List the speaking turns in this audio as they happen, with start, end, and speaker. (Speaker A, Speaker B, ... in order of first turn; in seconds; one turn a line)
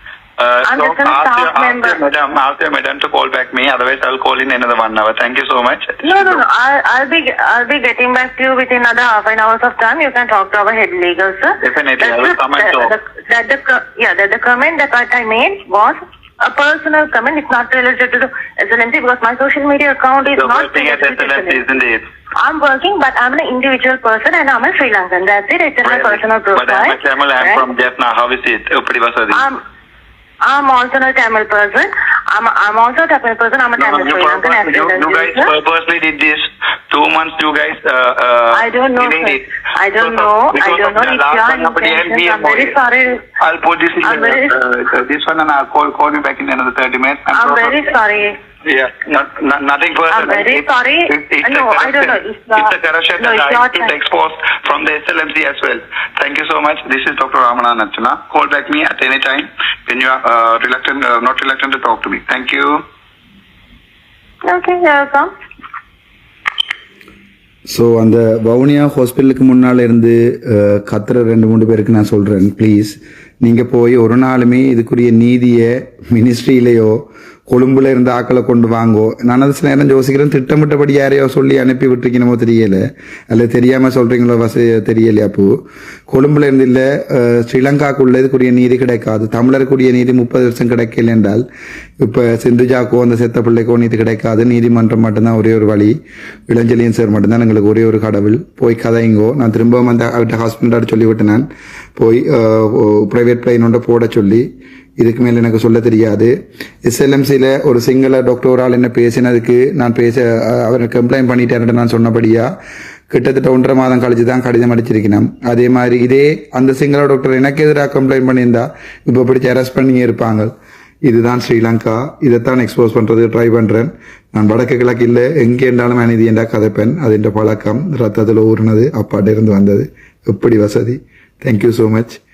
Speaker A: 0.4-6.4
Speaker B: 0.7-2.0
Speaker B: 6.0-21.6
Speaker A: 11.6-12.9
Speaker A: 20.4-22.0
Speaker B: 22.4-27.6
Speaker A: 25.8-29.4
Speaker B: 30.5-35.5
Speaker A: 33.8-39.4
Speaker B: 38.5-43.2
Speaker A: 40.0-42.7
Speaker A: 43.4-47.8
Speaker B: 44.0-44.5
Speaker B: 47.3-48.3
Speaker A: 48.7-62.8
Speaker B: 50.1-53.9
Speaker B: 64.5-65.3
Speaker C: 67.7-77.0
Speaker C: 77.5-85.5
Speaker C: 86.1-91.4
Speaker C: 92.0-96.0
Speaker C: 96.5-104.5
Speaker C: 105.0-106.3
Speaker C: 106.8-112.5
Speaker C: 113.1-120.5
Speaker C: 121.1-132.2